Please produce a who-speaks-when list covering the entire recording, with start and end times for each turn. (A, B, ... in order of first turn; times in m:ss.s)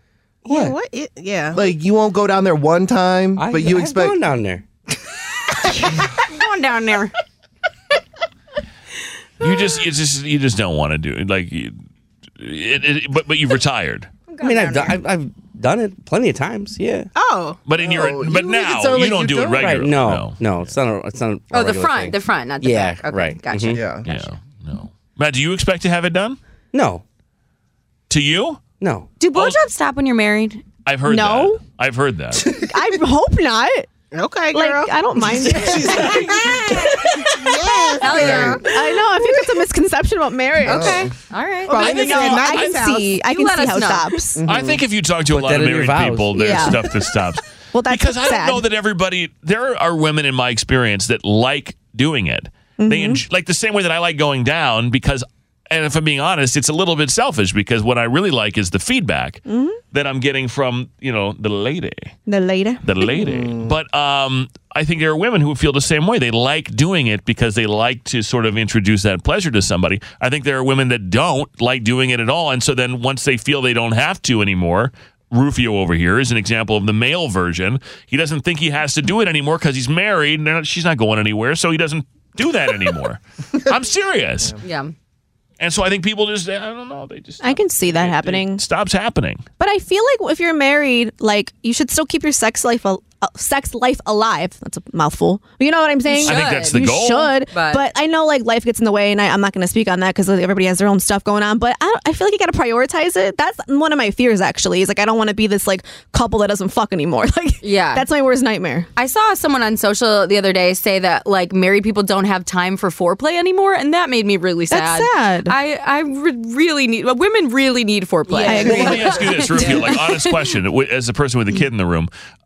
0:00.4-0:01.6 A
0:00.5-0:00.7 B
0:01.5-0:04.2 C
0:03.4-0:04.6 B
0:05.7-0:07.1 D
0:09.4-0:11.7 E
0:12.4-0:14.1 E
0:14.3-0:15.0 D
0:14.4-0:17.1 B
0:17.1-0:17.6 A
0:17.7-0:20.4 E
0:17.8-0:19.9 C
0:19.6-0:23.9 B
0:21.5-0:24.0 D
0:23.7-0:24.0 C
0:24.0-0:26.4 E
0:26.7-0:27.0 B
0:28.1-0:28.6 E
0:28.8-0:29.1 B
0:29.2-0:30.6 D
0:30.8-0:32.5 E
0:31.1-0:31.6 F
0:32.4-0:32.9 C
0:32.6-0:33.9 F
0:34.1-0:38.8 A
0:34.5-0:41.1 F
0:38.0-0:38.7 D
0:38.1-0:38.6 C
0:40.6-0:41.1 C
0:40.6-0:42.4 D
0:41.7-0:43.2 A
0:41.7-0:44.4 F
0:41.7-0:42.8 E
0:43.0-0:44.2 D
0:44.4-0:44.8 C
0:44.5-1:02.1 E
0:45.3-0:46.7 B
0:46.4-0:46.9 F
0:47.7-0:48.6 F
0:52.8-0:53.2 F
0:59.5-0:59.8 F
1:02.3-1:03.1 F
1:02.8-1:24.6 E
1:03.1-1:03.8 C
1:24.6-1:24.9 D
1:25.6-1:29.4 E
1:27.4-1:28.6 F
1:29.6-1:48.9 F
1:36.0-1:36.9 D
1:36.2-1:37.3 E
1:37.5-1:37.9 D
1:47.6-1:48.0 D
1:49.0-2:00.3 D
1:54.7-1:55.5 F
1:58.3-1:59.7 F
1:58.5-2:02.1 E